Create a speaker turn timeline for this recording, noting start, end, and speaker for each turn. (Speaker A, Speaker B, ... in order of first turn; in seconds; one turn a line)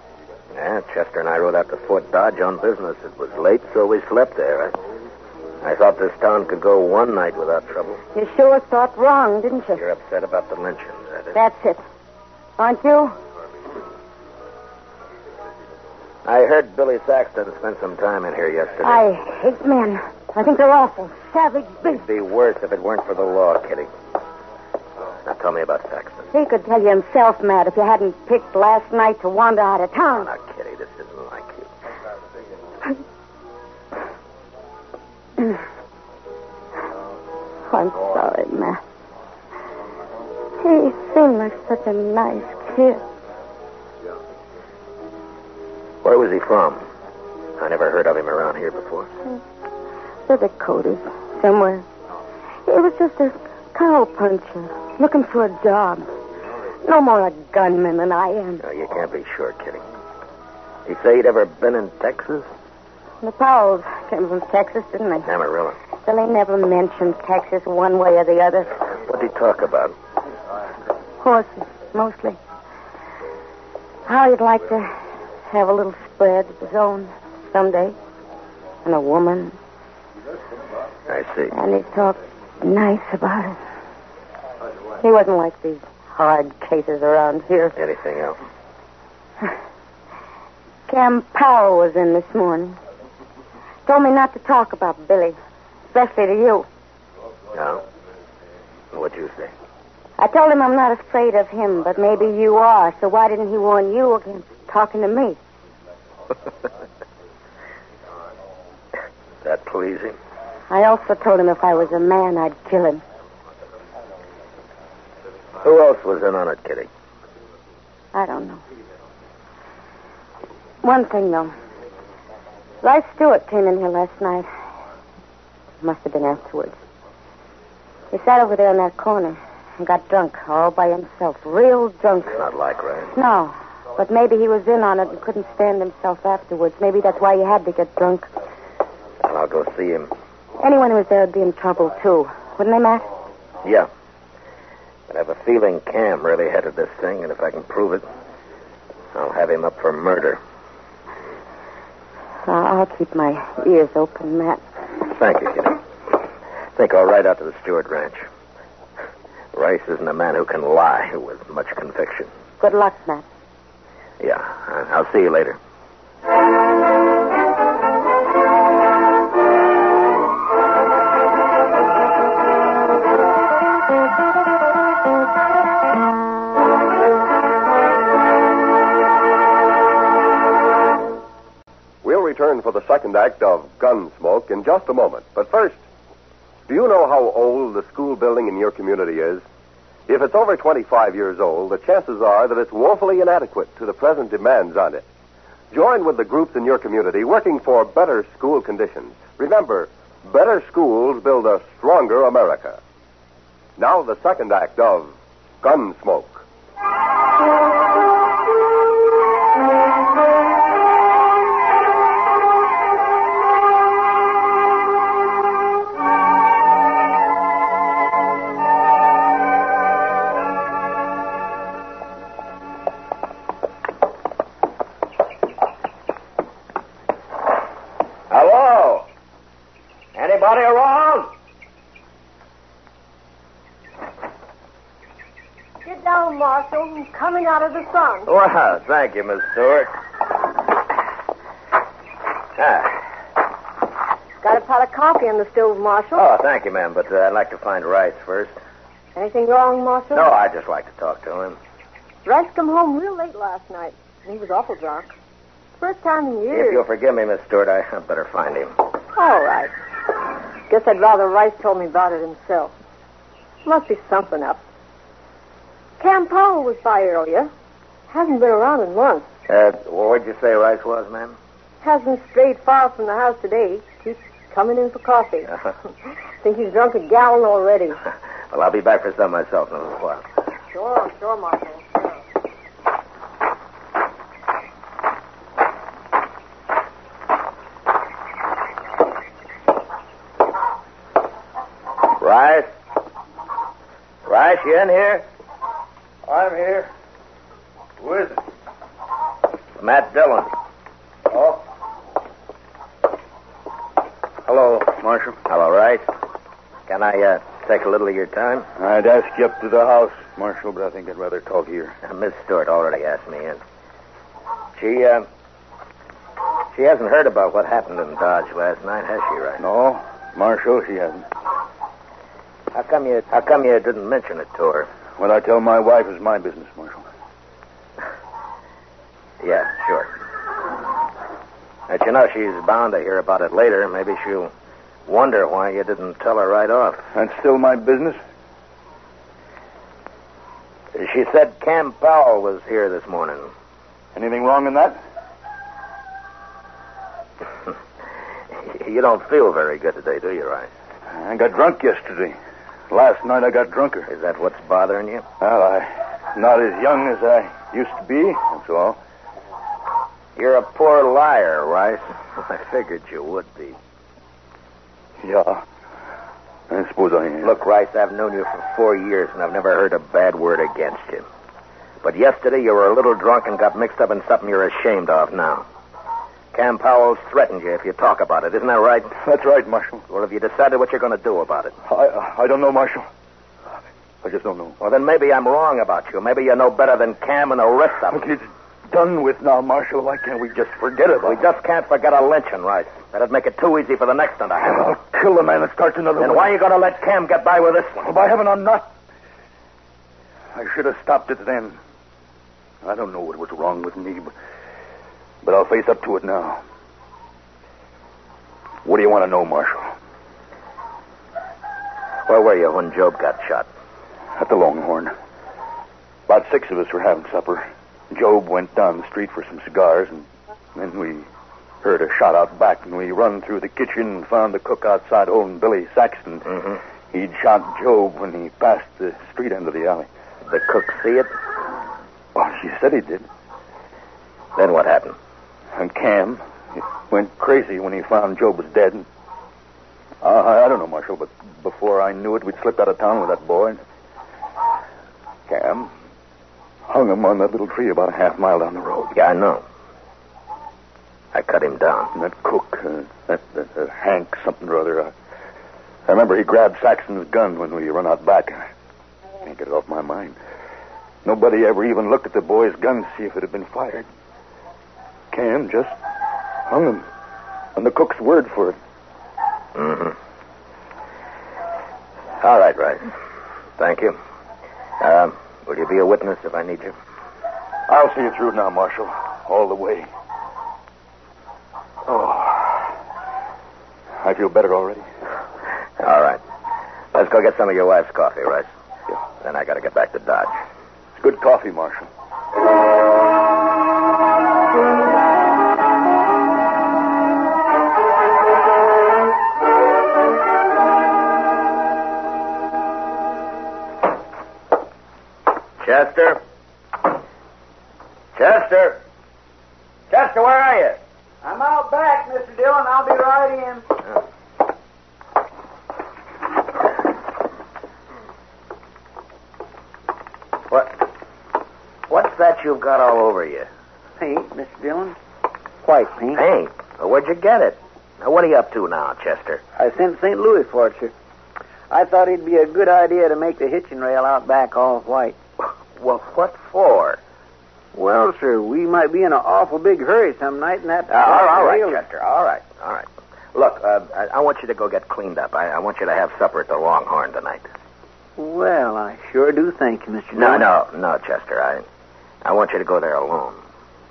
Speaker A: 0.5-4.8
Speaker A: 5.6-8.0
Speaker B: 8.1-9.8
Speaker A: 9.8-11.4
Speaker B: 11.3-11.8
Speaker B: 12.6-13.1
Speaker A: 16.2-19.1
Speaker B: 18.8-22.0
Speaker A: 21.9-23.9
Speaker A: 25.2-26.3
Speaker B: 26.3-30.3
Speaker A: 30.1-31.7
Speaker B: 37.7-38.8
Speaker B: 40.6-43.0
Speaker A: 46.0-46.9
Speaker A: 47.6-49.1
Speaker B: 50.3-51.9
Speaker B: 52.7-56.1
Speaker B: 56.8-58.6
Speaker A: 58.6-59.8
Speaker A: 60.9-62.5
Speaker B: 63.2-65.3
Speaker A: 65.2-65.8
Speaker B: 66.1-68.8
Speaker A: 69.0-70.0
Speaker B: 71.2-72.4
Speaker B: 74.1-74.9
Speaker B: 75.5-78.0
Speaker B: 78.8-79.6
Speaker A: 81.1-81.5
Speaker B: 81.5-83.6
Speaker B: 85.0-87.8
Speaker A: 87.8-88.4
Speaker B: 90.9-92.8
Speaker B: 93.9-95.4
Speaker B: 95.9-96.7
Speaker A: 97.5-97.8
Speaker A: 98.9-99.5
Speaker B: 100.2-105.4
Speaker A: 109.4-110.2
Speaker B: 110.7-113.0
Speaker A: 115.6-116.9
Speaker B: 118.1-118.6
Speaker B: 120.8-121.5
Speaker B: 122.8-124.5
Speaker B: 125.8-126.8
Speaker B: 128.1-132.4
Speaker A: 132.3-133.1
Speaker B: 133.1-138.3
Speaker A: 139.2-140.1
Speaker B: 140.6-143.1
Speaker A: 143.6-143.9
Speaker A: 145.1-148.1
Speaker A: 149.1-150.4
Speaker B: 152.4-154.6
Speaker A: 155.1-155.8
Speaker A: 156.8-158.2
Speaker A: 159.5-162.3
Speaker B: 162.6-163.2
Speaker A: 164.2-165.6
Speaker C: 182.0-185.8
Speaker C: 186.7-189.4
Speaker C: 190.1-195.1
Speaker C: 195.7-202.8
Speaker C: 203.8-206.4
Speaker A: 228.3-229.1
Speaker A: 230.2-231.3
Speaker D: 235.8-238.3
Speaker A: 238.2-239.9
Speaker A: 242.6-243.0
Speaker D: 244.4-246.2
Speaker A: 246.1-248.6
Speaker D: 249.2-250.3
Speaker A: 250.1-251.6
Speaker D: 252.2-255.1
Speaker D: 255.8-256.8
Speaker A: 256.5-258.8
Speaker D: 259.2-259.7
Speaker D: 260.7-262.7
Speaker D: 263.6-264.6
Speaker D: 266.0-267.5
Speaker D: 268.1-269.2
Speaker A: 269.5-271.4
Speaker D: 271.8-275.5
Speaker D: 276.4-278.0
Speaker A: 278.5-280.2
Speaker D: 280.7-282.2
Speaker A: 292.1-292.7
Speaker A: 294.2-295.2
Speaker E: 296.3-296.9
Speaker E: 298.0-298.3
Speaker A: 299.8-300.5
Speaker E: 304.5-305.4
Speaker A: 305.5-306.1
Speaker A: 306.9-308.7
Speaker E: 308.8-312.0
Speaker A: 312.0-313.6
Speaker A: 314.8-315.3
Speaker A: 316.7-319.6
Speaker E: 319.6-321.2
Speaker A: 322.7-324.9
Speaker E: 325.2-327.0
Speaker A: 329.4-330.1
Speaker A: 331.9-334.5
Speaker A: 335.1-337.0
Speaker E: 337.1-338.2
Speaker A: 340.9-343.5
Speaker E: 344.2-345.0
Speaker A: 348.6-350.7
Speaker E: 351.2-352.4
Speaker E: 352.9-354.1
Speaker A: 354.1-355.2
Speaker E: 355.4-359.0
Speaker A: 360.4-363.8
Speaker E: 365.2-365.6
Speaker E: 366.7-367.5
Speaker A: 367.4-371.2
Speaker A: 372.0-375.7
Speaker A: 376.5-379.1
Speaker E: 379.2-380.0
Speaker A: 380.1-381.8
Speaker E: 381.9-383.1
Speaker E: 384.2-384.8
Speaker A: 384.8-388.2
Speaker E: 388.1-391.4
Speaker A: 391.2-394.8
Speaker E: 394.6-396.5
Speaker A: 396.2-398.1
Speaker E: 398.0-398.9
Speaker E: 400.5-401.8
Speaker E: 402.8-404.3
Speaker E: 405.4-406.6
Speaker E: 408.9-409.9
Speaker A: 412.2-413.7
Speaker E: 414.4-415.1
Speaker E: 416.3-421.2
Speaker E: 421.8-430.1
Speaker A: 430.5-431.3
Speaker E: 432.4-433.2
Speaker A: 434.6-435.2
Speaker E: 435.8-436.4
Speaker E: 437.1-439.1
Speaker E: 440.2-443.8
Speaker E: 445.5-445.9
Speaker E: 446.9-449.1
Speaker A: 449.1-449.6
Speaker A: 451.3-452.1
Speaker E: 452.1-455.1
Speaker E: 456.1-458.7
Speaker E: 459.4-460.4
Speaker E: 461.2-464.1
Speaker E: 465.3-465.9
Speaker E: 466.7-467.0
Speaker E: 467.8-468.8
Speaker A: 469.8-470.2
Speaker A: 472.4-473.1
Speaker A: 473.8-474.2
Speaker A: 475.0-476.9
Speaker E: 477.9-480.1
Speaker E: 482.1-482.9
Speaker E: 484.2-485.1
Speaker A: 486.0-486.4
Speaker A: 487.1-488.7
Speaker A: 489.4-490.5
Speaker E: 491.2-492.1
Speaker A: 505.8-506.4
Speaker A: 508.4-509.0
Speaker A: 510.1-511.0
Speaker F: 511.4-513.9
Speaker A: 520.7-521.0
Speaker A: 522.1-523.7
Speaker F: 524.2-525.2
Speaker F: 525.8-526.4
Speaker A: 526.3-529.6
Speaker F: 529.8-531.1
Speaker F: 531.9-535.4
Speaker A: 536.0-537.2
Speaker F: 537.9-542.0
Speaker A: 541.1-547.7
Speaker F: 548.4-550.7
Speaker A: 550.3-551.9
Speaker A: 552.4-553.6